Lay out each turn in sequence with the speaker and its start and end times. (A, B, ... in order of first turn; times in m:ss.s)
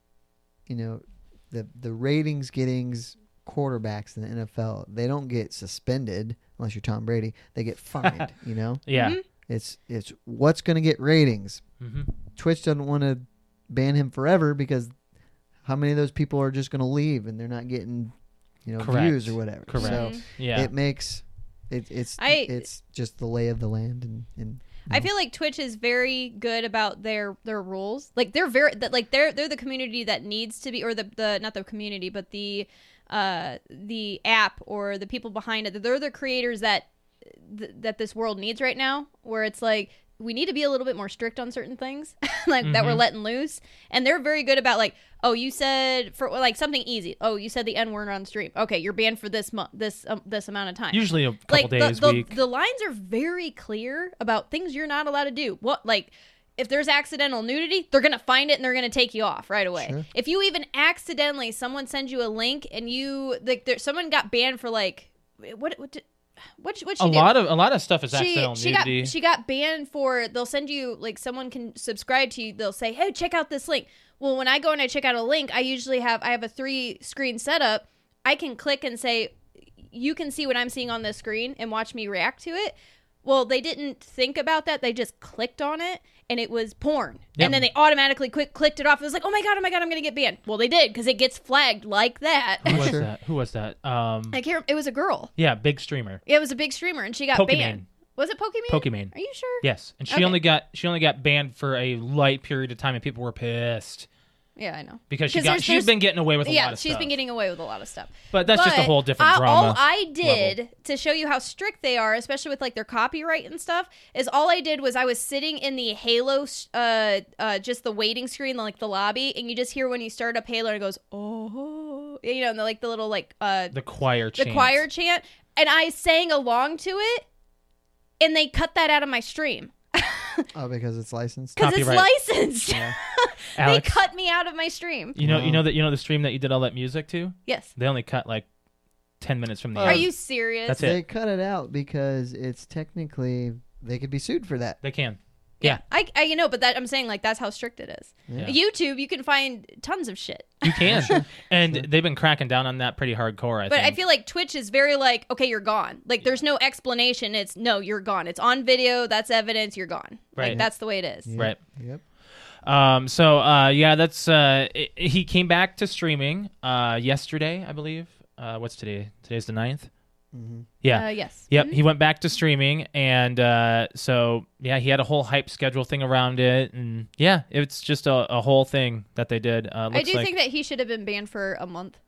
0:00.7-0:11.6 A
0:08.9-0:09.2 B
0:09.0-0:09.2 C
0:11.8-0:12.1 B
0:12.3-0:14.9 A
0:15.6-0:18.1 A
0:18.6-0:25.1 A
0:18.8-0:20.7 B
0:19.7-0:20.2 C
0:22.2-0:22.6 C
0:24.9-1:06.0 C
0:42.6-0:43.0 B
0:50.9-0:52.4 B
0:59.8-1:00.0 A
1:06.6-1:07.3 C
1:07.0-1:09.1 B
1:08.1-1:19.4 C
1:19.9-1:33.0 C
1:27.4-1:27.6 B
1:32.6-1:34.4 B
1:32.6-1:33.1 A
1:34.3-1:35.3 C
1:35.4-1:36.2 B
1:36.2-1:40.4 C
1:37.3-1:37.8 B
1:38.7-1:44.1 B
1:44.6-2:03.8 C
1:45.1-1:47.2 B
1:48.3-1:50.6 B
2:03.7-2:04.8 B
2:04.4-2:07.2 C
2:08.2-2:10.4 C
2:10.5-2:11.6 A
2:11.6-2:15.2 C
2:11.6-2:12.1 B
2:12.7-2:12.9 A
2:13.6-2:14.0 B
2:15.2-2:18.4 B
2:15.2-2:15.6 A
2:19.2-2:20.1 B
2:19.7-2:20.1 A
2:19.8-2:20.8 C
2:20.6-2:21.0 B
2:20.8-2:24.8 A
2:24.8-2:25.8 B
2:25.6-2:31.2 C
2:30.6-2:34.0 B
2:30.8-2:31.9 A
2:33.7-2:41.3 C
2:40.4-2:40.6 B
2:41.2-2:42.0 A
2:42.6-2:49.9 B
2:50.3-2:50.7 A
2:50.8-3:00.3 B
2:50.9-2:51.8 C
2:59.9-3:02.0 C